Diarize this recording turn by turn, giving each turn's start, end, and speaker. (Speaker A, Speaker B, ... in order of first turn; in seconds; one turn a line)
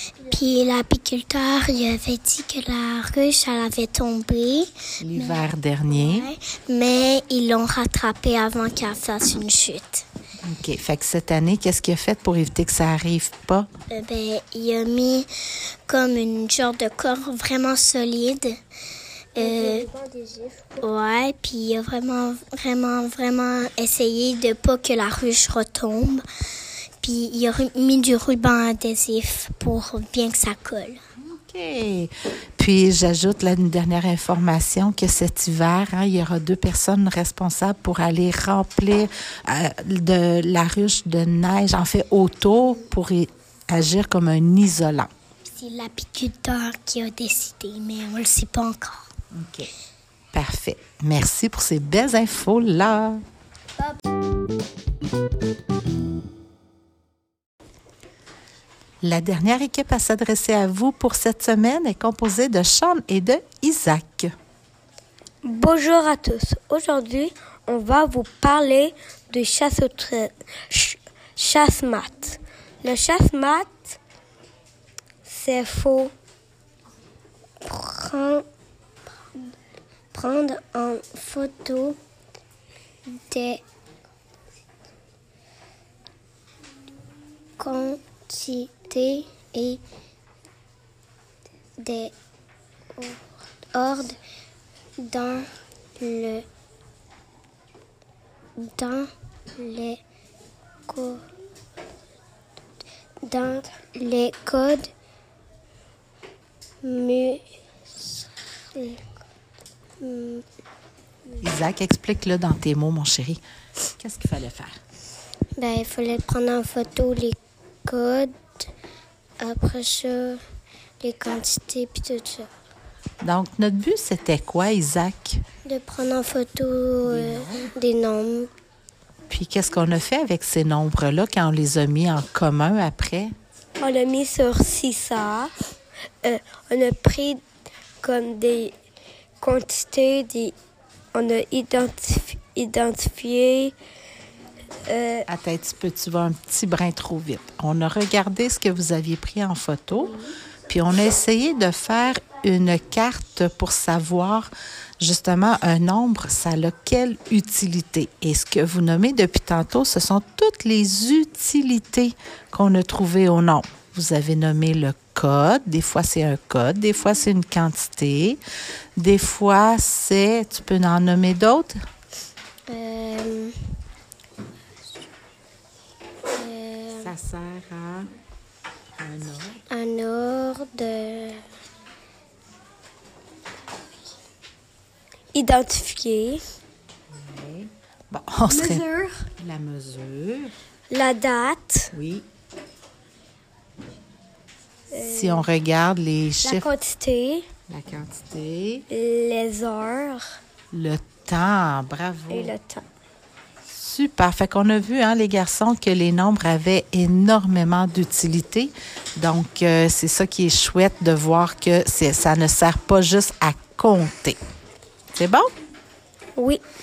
Speaker A: 0.2-10.1
Speaker B: 5.0-6.3
Speaker B: 10.4-13.7
Speaker A: 13.9-15.3
Speaker A: 15.9-18.6
Speaker A: 19.4-19.9
Speaker C: 19.4-20.8
Speaker A: 20.8-26.2
Speaker A: 27.0-31.0
Speaker B: 31.2-45.1
Speaker A: 45.5-49.1
Speaker B: 49.3-49.7
Speaker B: 50.3-53.2
Speaker B: 59.0-64.3
Speaker C: 65.4-73.8
Speaker C: 75.3-76.1
Speaker A: 77.6-78.5
Speaker A: 80.1-82.0
Speaker A: 83.1-83.6
Speaker A: 87.6-89.8
Speaker A: 91.8-92.1
Speaker A: 93.0-93.2
Speaker A: 93.7-94.2
Speaker A: 95.0-96.5
Speaker A: 98.6-100.0
Speaker A: 100.9-101.2
Speaker A: 103.2-104.9
Speaker A: 106.8-107.4
Speaker A: 108.7-109.1
Speaker A: 110.0-110.5
Speaker B: 111.4-113.4
Speaker B: 114.0-114.8
Speaker A: 115.6-118.7
Speaker A: 119.4-120.4
Speaker A: 121.0-122.5
Speaker B: 123.2-125.4
Speaker A: 125.7-128.5
Speaker B: 127.1-127.6
Speaker B: 129.3-133.3
Speaker C: 133.8-135.5
Speaker A: 133.8-134.9
Speaker A: 136.3-137.4
Speaker A: 138.0-138.7
Speaker C: 139.4-140.5
Speaker C: 141.2-143.5
Speaker A: 141.2-141.9
Speaker A: 142.9-143.7
Speaker C: 144.9-145.2
Speaker B: 145.3-150.2
Speaker B: 150.7-168.4
Speaker B: 169.0-171.8
Speaker A: 172.7-173.7
Speaker A: 176.3-177.1
Speaker B: 177.0-178.1
Speaker B: 179.0-179.6
Speaker A: 179.7-181.4
Speaker C: 185.3-186.4
Speaker B: 187.1-190.5
Speaker C: 188.5-189.3
Speaker C: 190.9-191.9
Speaker B: 191.9-192.3
Speaker C: 194.9-195.5
Speaker B: 195.0-196.7
Speaker C: 196.4-197.5
Speaker B: 197.7-198.9
Speaker C: 198.9-200.3
Speaker B: 200.7-202.6
Speaker C: 202.3-202.8
Speaker B: 203.7-214.4
Speaker B: 215.1-215.5